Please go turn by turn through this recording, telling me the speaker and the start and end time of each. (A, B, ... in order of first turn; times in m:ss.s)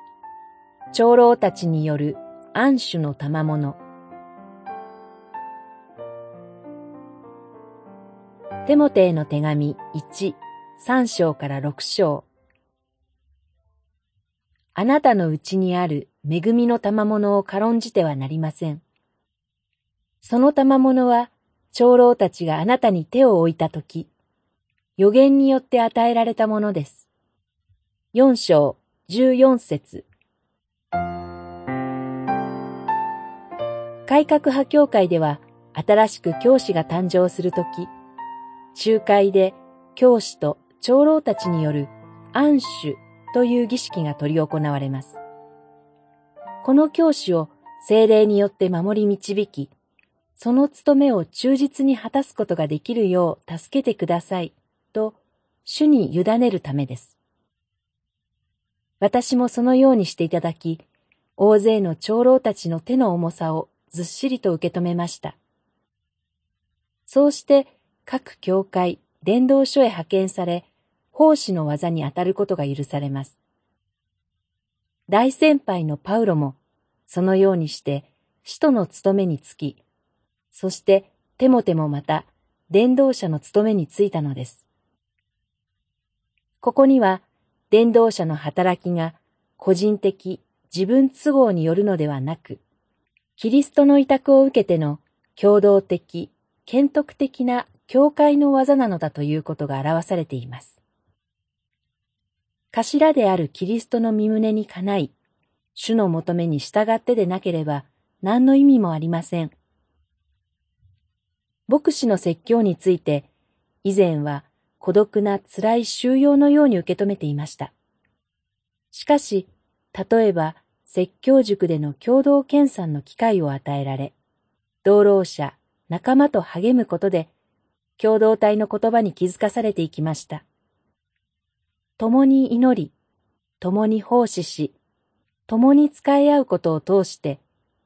0:00.9-0:03.8 A
0:08.6-0:12.2 A
0:14.8-0:18.8 A
0:20.2-0:24.1 A
0:25.0-0:27.1 A
0:28.1-0:30.0 A
0:34.0-0:37.9 A
0:38.7-0:45.2 A
0:46.6-0:49.7 A
0:50.4-0:57.2 A
0:59.0-1:00.8 A
1:01.4-1:05.4 A
1:07.1-1:13.4 A
1:15.1-1:19.8 A
1:20.5-1:24.7 A
1:26.6-1:32.6 A
1:33.4-1:40.8 A
1:42.7-1:45.1 A
1:45.8-1:49.5 A
1:51.7-1:53.3 A
1:53.8-1:57.7 A
1:58.9-2:04.2 A
2:04.8-2:07.3 A
2:08.0-2:10.4 A
2:12.0-2:12.9 A
2:13.6-2:14.8 A
2:15.5-2:17.4 A